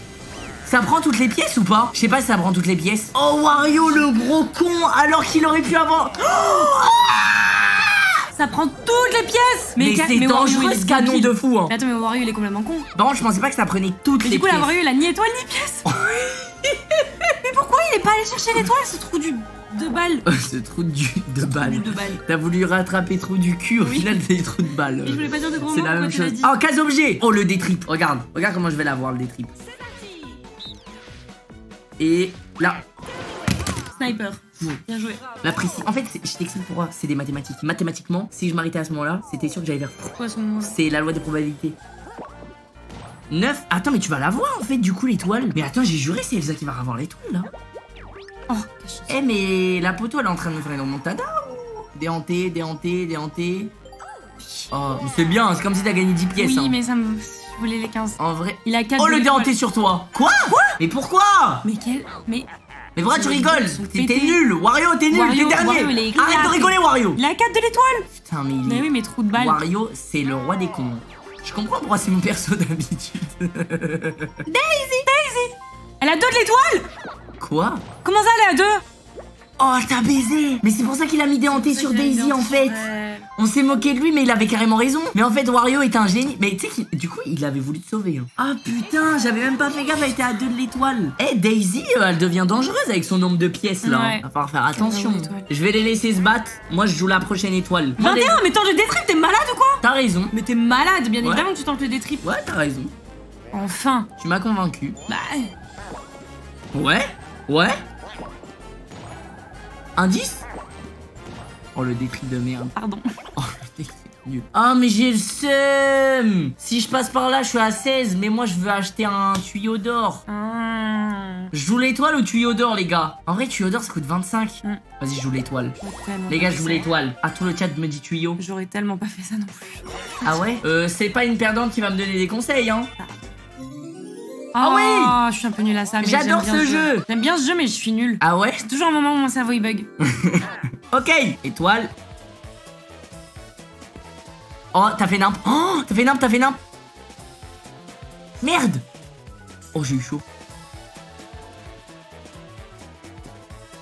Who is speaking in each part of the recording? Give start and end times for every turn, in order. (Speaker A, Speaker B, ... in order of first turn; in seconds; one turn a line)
Speaker A: 0.6-8.1
Speaker B: 3.6-4.1
Speaker B: 8.3-12.9
Speaker A: 9.8-11.7
Speaker A: 12.9-14.7
Speaker B: 14.2-15.9
Speaker A: 15.8-17.3
Speaker B: 17.4-20.2
Speaker A: 20.2-29.6
Speaker B: 21.5-22.2
Speaker B: 23.8-24.2
Speaker B: 25.0-26.5
Speaker A: 32.0-32.8
Speaker B: 33.9-35.2
Speaker A: 35.4-41.8
Speaker B: 40.2-40.8
Speaker A: 43.3-47.5
Speaker B: 48.5-49.1
Speaker A: 49.1-53.7
Speaker B: 54.4-54.7
Speaker A: 54.7-56.8
Speaker B: 56.4-59.5
Speaker A: 58.2-61.6
Speaker B: 60.4-60.7
Speaker B: 61.6-62.5
Speaker A: 63.0-67.2
Speaker B: 63.1-64.4
Speaker B: 65.1-68.1
Speaker A: 68.2-74.4
Speaker B: 68.6-69.6
Speaker B: 74.5-76.9
Speaker A: 77.4-77.8
Speaker B: 78.0-78.8
Speaker A: 79.6-82.8
Speaker B: 81.5-83.3
Speaker A: 83.4-98.4
Speaker B: 93.8-95.5
Speaker B: 98.0-102.2
Speaker A: 99.8-100.3
Speaker A: 101.2-101.5
Speaker A: 102.2-102.9
Speaker B: 103.5-104.1
Speaker A: 104.2-105.0
Speaker B: 105.1-105.5
Speaker A: 106.7-107.8
Speaker A: 110.0-110.4
Speaker A: 111.7-112.7
Speaker B: 112.8-113.1
Speaker A: 113.4-120.2
Speaker B: 120.3-121.5
Speaker A: 121.5-128.4
Speaker B: 125.8-126.9
Speaker B: 128.4-130.5
Speaker A: 130.2-132.9
Speaker B: 134.5-139.9
Speaker A: 134.6-135.2
Speaker A: 136.0-137.0
Speaker A: 138.2-138.7
Speaker A: 140.0-141.9
Speaker A: 144.7-146.6
Speaker A: 148.4-148.8
Speaker A: 149.7-150.2